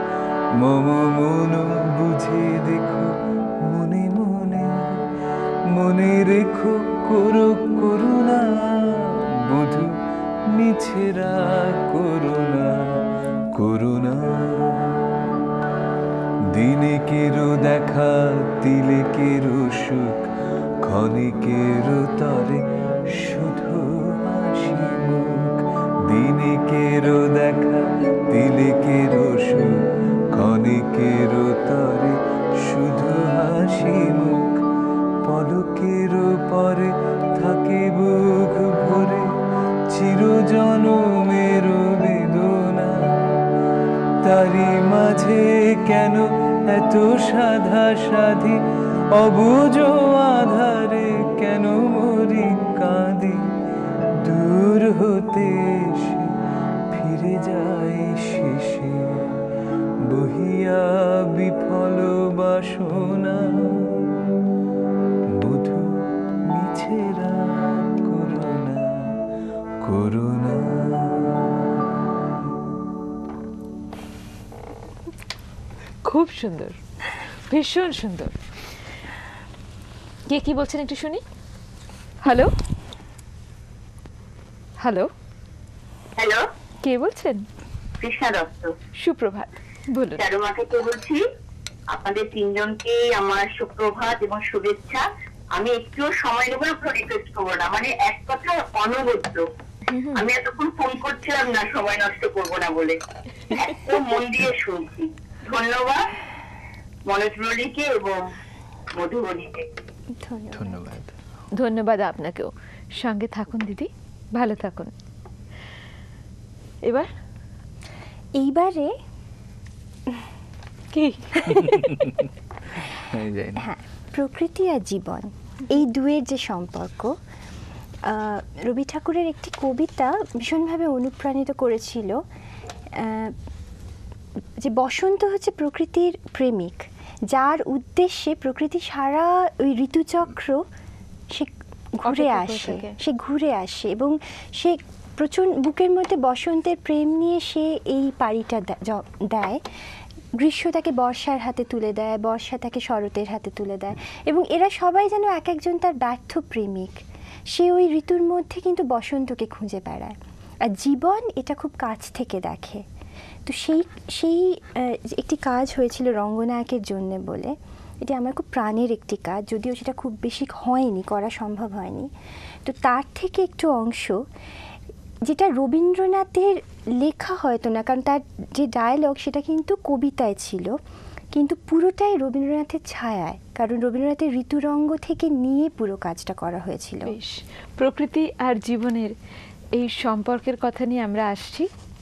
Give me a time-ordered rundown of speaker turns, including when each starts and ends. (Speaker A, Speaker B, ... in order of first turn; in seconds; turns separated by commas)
Speaker A: 0.6-5.0, Speaker A: 5.7-15.2, Speaker A: 16.5-34.7, Speaker A: 35.2-39.4, Speaker A: 39.9-43.4, Speaker A: 44.2-48.6, Speaker A: 49.1-53.5, Speaker A: 54.1-56.4, Speaker A: 56.9-59.4, Speaker A: 60.0-64.2, Speaker A: 65.3-69.2, Speaker A: 69.8-72.5, Speaker B: 76.0-76.8, Speaker B: 77.5-78.4, Speaker B: 80.3-81.2, Speaker B: 82.2-82.5, Speaker B: 84.8-85.1, Speaker C: 86.2-86.4, Speaker B: 86.8-87.5, Speaker C: 88.0-88.8, Speaker B: 89.0-90.2, Speaker C: 90.2-91.2, Speaker C: 91.9-99.5, Speaker B: 99.9-100.2, Speaker C: 100.1-106.0, Speaker C: 107.1-108.3, Speaker C: 108.9-109.7, Speaker D: 110.1-110.8, Speaker A: 110.5-111.1, Speaker B: 111.5-114.9, Speaker B: 116.8-117.1, Speaker D: 118.3-118.9, Speaker B: 120.9-121.9, Speaker A: 121.4-123.7, Speaker D: 123.6-127.2, Speaker D: 128.0-132.2, Speaker D: 132.9-133.4, Speaker D: 134.6-140.7, Speaker D: 141.3-149.6, Speaker B: 142.0-143.0, Speaker D: 150.4-162.8, Speaker D: 163.5-172.1, Speaker D: 172.7-174.2, Speaker D: 175.2-180.8, Speaker D: 181.3-187.2, Speaker B: 187.1-189.1, Speaker B: 189.8-191.7